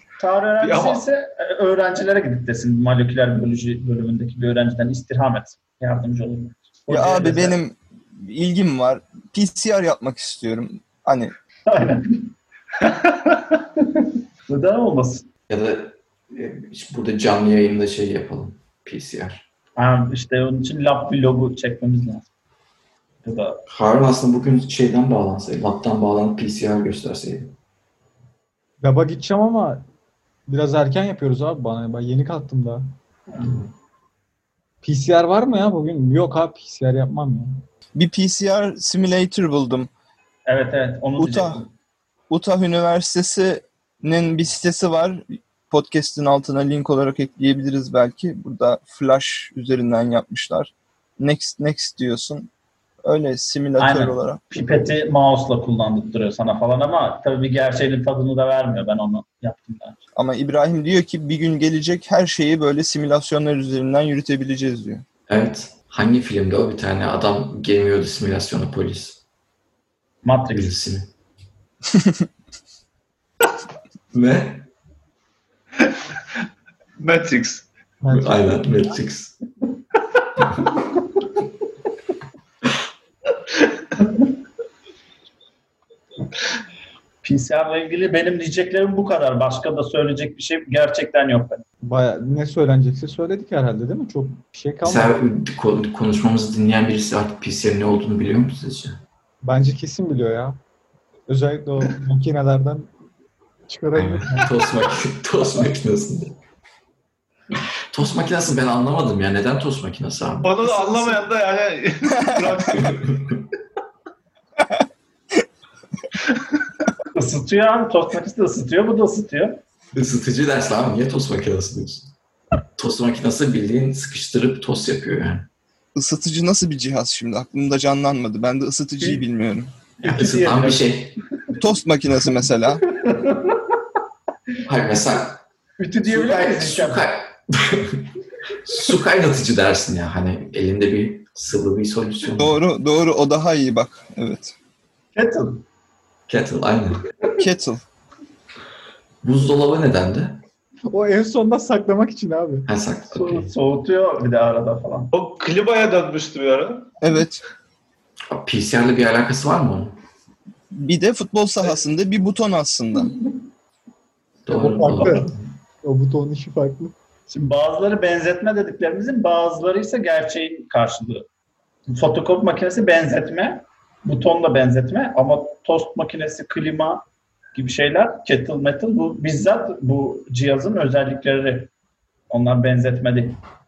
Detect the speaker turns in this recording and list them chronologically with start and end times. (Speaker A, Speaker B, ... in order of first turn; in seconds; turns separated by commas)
Speaker A: 0.2-7.6, Speaker B: 0.6-1.0, Speaker C: 6.9-11.3, Speaker A: 11.7-12.3, Speaker A: 13.8-15.3, Speaker D: 15.5-19.4, Speaker A: 19.8-22.3, Speaker A: 23.2-23.6, Speaker D: 23.7-27.5, Speaker E: 28.8-29.9, Speaker E: 30.5-32.9, Speaker A: 33.3-33.6, Speaker E: 34.8-37.6, Speaker C: 38.0-39.9, Speaker A: 40.5-41.7, Speaker C: 41.2-41.6, Speaker C: 42.3-52.5, Speaker C: 53.0-54.4, Speaker A: 53.8-60.0, Speaker C: 60.2-65.0, Speaker D: 65.3-69.2, Speaker A: 70.2-70.7, Speaker D: 70.5-71.1, Speaker C: 71.9-72.2, Speaker D: 74.1-74.7, Speaker B: 77.0-77.7, Speaker E: 78.0-78.9, Speaker D: 78.1-79.4, Speaker A: 87.2-91.7, Speaker E: 91.8-95.2, Speaker D: 94.8-99.0, Speaker E: 99.4-100.6, Speaker E: 101.3-102.9, Speaker E: 103.7-104.3, Speaker D: 104.0-106.4, Speaker D: 107.9-110.7, Speaker B: 110.4-113.0, Speaker C: 112.1-112.5, Speaker D: 112.7-113.4, Speaker A: 117.1-119.6, Speaker D: 119.9-122.2, Speaker D: 122.8-125.5, Speaker C: 126.0-129.7, Speaker A: 130.0-130.9, Speaker D: 130.0-131.2, Speaker C: 131.6-132.8, Speaker A: 132.9-133.7, Speaker D: 134.7-135.4, Speaker A: 135.8-137.1, Speaker D: 136.0-138.1, Speaker D: 138.7-142.6, Speaker C: 142.4-144.5, Speaker A: 145.2-145.7, Speaker D: 146.3-147.0, Speaker C: 147.4-147.8, Speaker D: 149.2-150.4, Speaker E: 150.9-152.7, Speaker D: 152.7-153.5, Speaker A: 153.1-155.1, Speaker B: 155.1-156.9, Speaker C: 157.0-157.4, Speaker D: 158.3-160.0, Speaker C: 160.7-163.1, Speaker D: 164.4-165.5, Speaker E: 164.5-165.3, Speaker A: 165.0-165.3, Speaker E: 165.8-166.9, Speaker A: 167.3-171.3, Speaker A: 171.9-181.7, Speaker A: 182.3-183.4